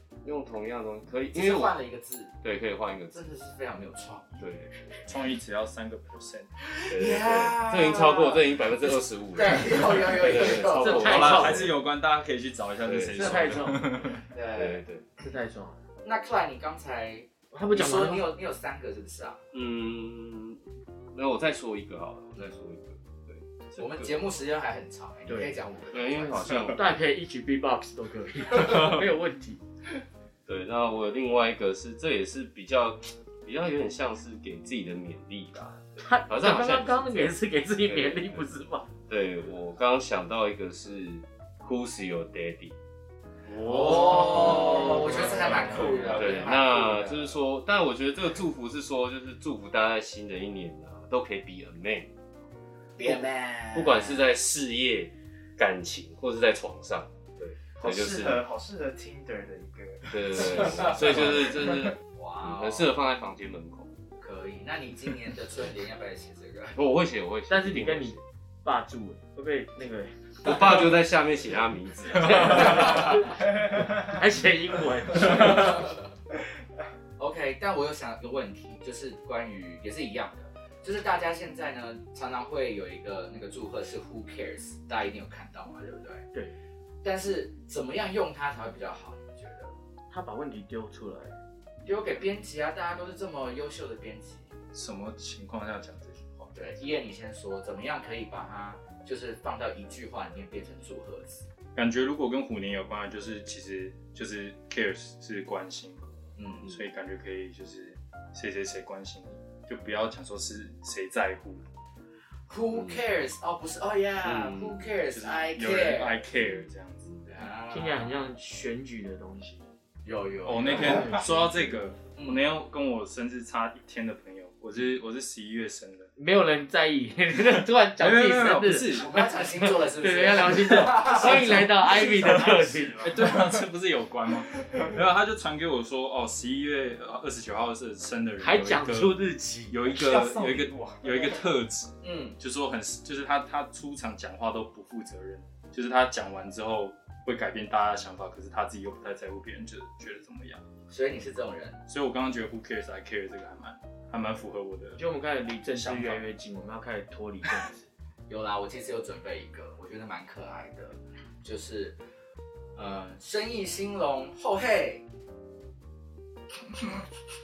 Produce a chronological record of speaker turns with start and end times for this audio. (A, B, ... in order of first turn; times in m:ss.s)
0:00.2-0:01.8 A
0:01.3-0:02.4 B
0:02.4-0:03.3 A
0:03.1-0:05.0 B
0:04.4-0:04.9 A
0:05.0-0:06.5 C
0:06.6-0:11.7 B
0:06.9-0:11.7 A
0:10.7-0:11.6 D
0:11.1-0:14.2 C
0:12.8-0:13.6 A
0:13.2-0:13.8 D
0:14.2-0:14.8 B
0:14.5-0:15.1 A
0:15.2-0:15.8 D
0:16.0-0:19.4 B
0:17.5-0:18.2 D
0:19.5-0:20.6 A
0:21.1-0:24.3 A
0:23.8-0:26.7 B
0:25.3-0:25.6 D
0:25.9-0:27.0 A
0:26.5-0:29.6 D
0:30.4-0:38.5 A
0:36.0-0:38.9 D
0:39.1-0:42.7 A
0:43.6-0:47.4 B
0:43.6-0:46.3 D
0:43.6-0:52.1 A
0:53.0-0:54.2 B
0:53.0-0:58.4 A
0:57.8-1:01.0 E
1:00.1-1:03.9 A
1:02.1-1:02.9 B
1:04.2-1:06.8 B
1:06.7-1:08.2 A
1:07.5-1:10.8 D
1:10.4-1:13.3 A
1:12.2-1:15.9 D
1:12.5-1:13.2 B
1:15.2-1:16.0 B
1:17.2-1:26.2 B
1:27.0-1:29.7 B
1:30.1-1:31.4 D
1:31.8-1:34.5 B
1:34.7-1:36.6 C
1:36.5-1:41.5 B
1:41.7-1:46.0 C
1:46.4-1:46.7 B
1:46.7-1:51.6 C
1:52.5-1:56.6 B
1:54.2-1:54.9 A
1:55.1-1:57.1 C
1:57.2-1:58.2 B
1:57.7-1:59.6 D
2:00.0-2:01.2 B
2:00.4-2:06.1 C
2:00.7-2:01.8 D
2:02.2-2:02.4 B
2:06.2-2:13.1 D
2:08.0-2:09.1 C
2:08.9-2:11.7 B
2:11.9-2:13.6 E
2:13.0-2:19.2 C
2:18.4-2:19.8 D
2:19.7-2:30.6 C
2:19.8-2:21.5 E
2:22.0-2:22.4 B
2:30.9-2:31.8 B
2:31.9-2:35.0 C
2:35.0-2:37.9 D
2:35.7-2:36.2 C
2:38.3-2:42.0 B
2:42.8-2:45.0 B